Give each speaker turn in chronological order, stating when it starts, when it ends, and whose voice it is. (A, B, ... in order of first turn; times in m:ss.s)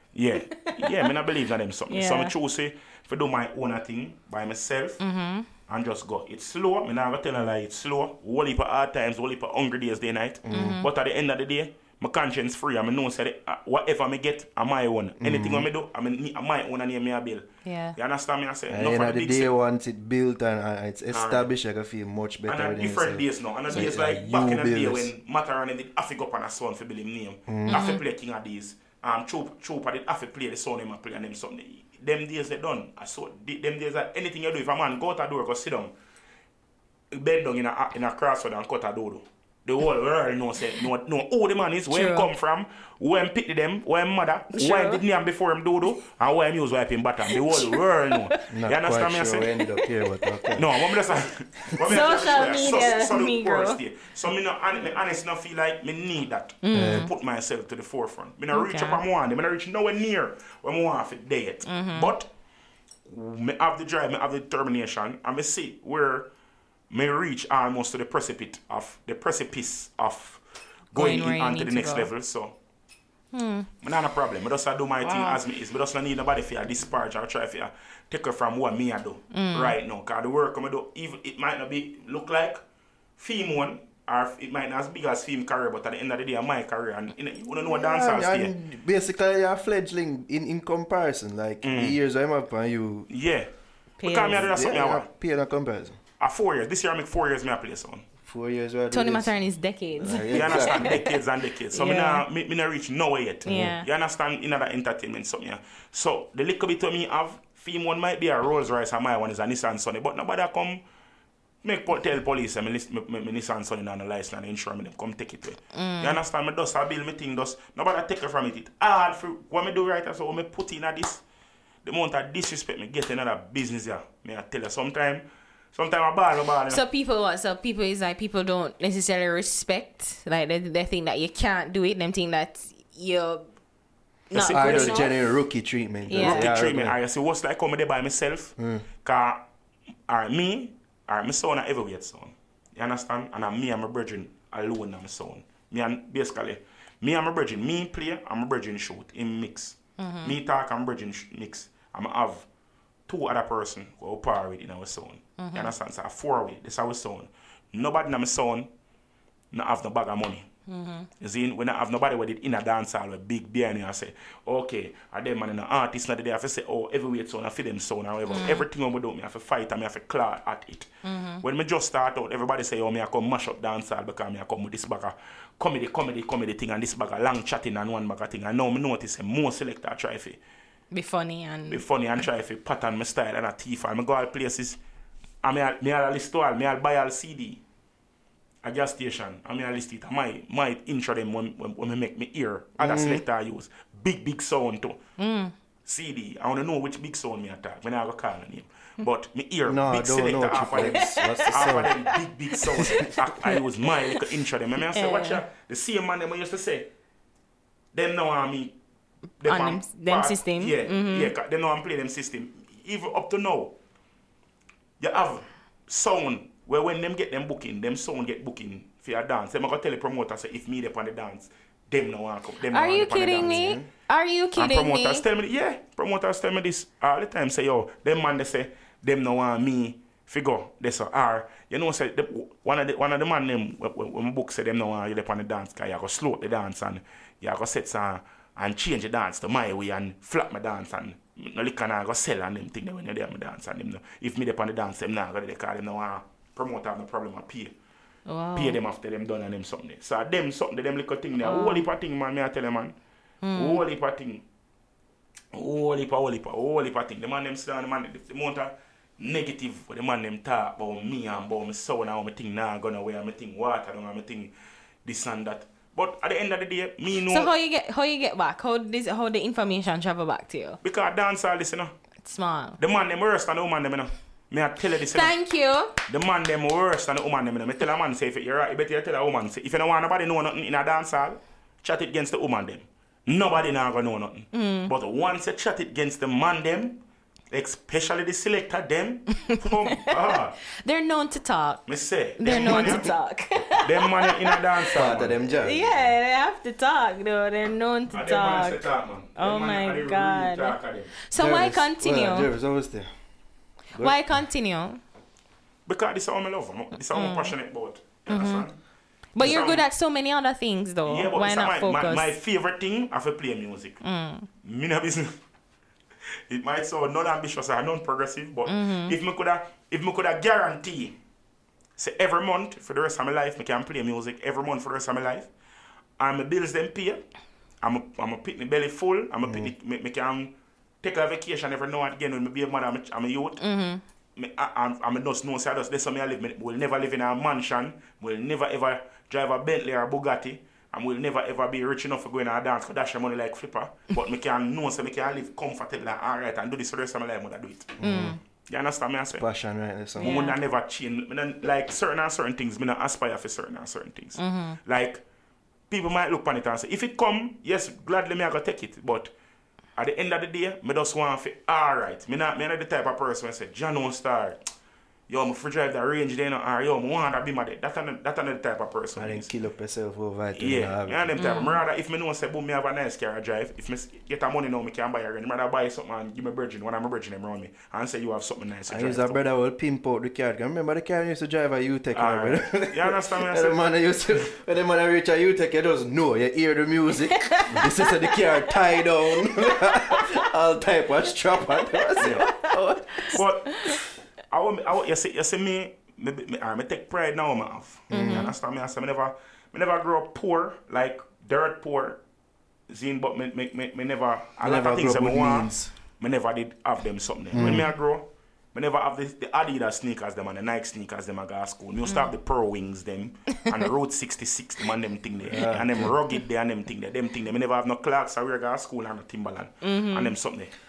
0:00.1-0:05.0 A
0:00.6-0:01.0 B
0:01.9-0:02.3 B
0:05.0-0:05.5 B
0:05.7-0:19.5 A
0:10.4-0:10.8 C
0:10.5-0:10.9 B
0:15.2-0:15.7 C
0:17.6-0:18.0 B
0:18.7-0:25.1 C
0:21.1-0:21.5 A
0:22.5-0:35.9 A
0:27.5-0:27.8 C
0:27.7-0:28.0 B
0:37.1-0:49.5 A
0:41.9-0:42.3 B
0:44.5-0:45.0 B
0:47.3-0:48.4 B
0:48.5-0:50.7 C
0:50.5-1:02.3 A
0:51.8-0:53.8 B
0:56.6-0:57.1 B
0:56.7-0:57.1 C
0:58.5-0:59.0 B
1:01.6-1:02.1 B
1:03.1-1:06.3 A
1:06.9-1:10.4 A
1:10.9-1:12.5 A
1:10.9-1:12.1 B
1:13.3-1:13.7 B
1:13.8-1:22.6 A
1:15.0-1:15.4 B
1:19.3-1:19.8 B
1:23.2-1:28.5 A
1:27.6-1:33.1 C
1:31.6-1:32.0 A
1:33.1-1:33.5 A
1:34.0-1:34.4 B
1:34.0-1:35.1 A
1:34.3-1:36.0 C
1:36.2-1:38.0 A
1:38.2-1:39.4 C
1:38.9-1:41.2 B
1:40.0-1:41.0 C
1:40.3-1:50.8 A
1:41.7-1:42.2 B
1:43.4-1:43.8 B
1:51.6-2:01.2 A
1:55.7-1:56.2 B
2:01.8-2:06.8 A
2:06.7-2:13.5 B
2:14.3-2:15.1 B
2:14.3-2:15.1 A
2:14.3-2:17.0 C
2:16.1-2:16.5 B
2:16.1-2:19.4 A
2:18.6-2:18.8 C
2:20.1-2:32.4 A
2:30.0-2:30.3 B
2:33.1-2:38.7 A
2:35.4-2:35.7 B
2:39.5-2:40.5 A
2:40.7-2:41.1 B
2:41.2-2:50.9 A
2:48.3-2:48.6 B
2:51.0-2:51.4 B
2:51.4-3:00.4 A
3:00.9-3:01.8 B
3:01.7-3:04.8 A
3:05.4-3:07.6 A
3:08.6-3:15.0 A
3:12.8-3:13.2 C
3:15.2-3:15.5 B
3:15.8-3:26.9 A
3:19.6-3:22.0 C
3:20.9-3:24.2 B
3:24.9-3:25.4 B
3:27.9-3:28.8 A
3:29.4-3:33.8 A
3:29.4-3:31.3 B
3:35.0-3:43.7 A
3:42.7-3:45.2 B
3:43.4-3:43.9 C
3:44.6-4:07.7 A
4:08.3-4:08.8 B
4:08.5-4:12.9 A
4:11.4-4:11.8 B
4:13.4-4:13.8 B
4:13.6-4:14.4 A
4:15.5-4:24.5 A
4:25.0-4:27.5 A
4:27.3-4:30.8 B
4:30.8-4:31.9 A
4:32.2-4:32.8 B
4:32.8-4:35.3 A
4:35.1-4:35.9 B
4:36.1-4:50.6 A
4:44.5-4:44.9 B
4:49.4-4:50.1 B
4:50.8-4:51.8 B
4:51.9-4:53.1 A
4:52.4-4:54.6 B
4:53.8-4:55.4 A
4:54.9-4:56.0 C
4:55.6-5:02.5 B
4:58.1-5:01.2 A
5:01.3-5:03.1 C
5:04.0-5:05.0 B
5:05.9-5:08.8 A
5:07.1-5:07.5 B
5:08.3-5:08.6 B
5:09.3-5:12.3 B
5:09.4-5:09.8 A
5:11.0-5:14.0 A
5:14.0-5:14.5 B
5:14.6-5:15.3 A
5:16.5-5:21.2 A
5:18.7-5:19.2 B
5:22.0-5:25.5 A
5:26.2-5:27.2 A
5:27.8-5:33.6 A
5:29.4-5:29.7 C
5:33.6-5:34.0 B
5:34.4-5:48.0 A
5:48.0-5:48.4 C
5:48.0-5:48.4 B
5:48.7-5:49.4 A
5:49.4-5:50.4 C
5:50.2-5:55.2 A
5:50.2-5:50.6 B
5:54.4-5:54.8 B
5:55.9-5:59.3 A
6:00.0-6:04.6 A
6:05.3-6:09.5 A
6:09.2-6:11.4 C
6:10.5-6:19.4 A
6:11.4-6:11.8 B
6:18.9-6:33.4 C
6:22.1-6:23.8 A
6:27.3-6:28.7 B
6:29.9-6:30.2 B
6:32.2-6:32.5 A
6:32.3-6:32.7 B
6:33.3-6:42.2 A
6:38.1-6:38.5 C
6:38.1-6:38.5 B
6:42.9-7:00.7 A
6:44.6-6:45.9 C
6:47.5-6:47.9 C
6:55.4-6:56.2 C
6:59.8-7:00.3 B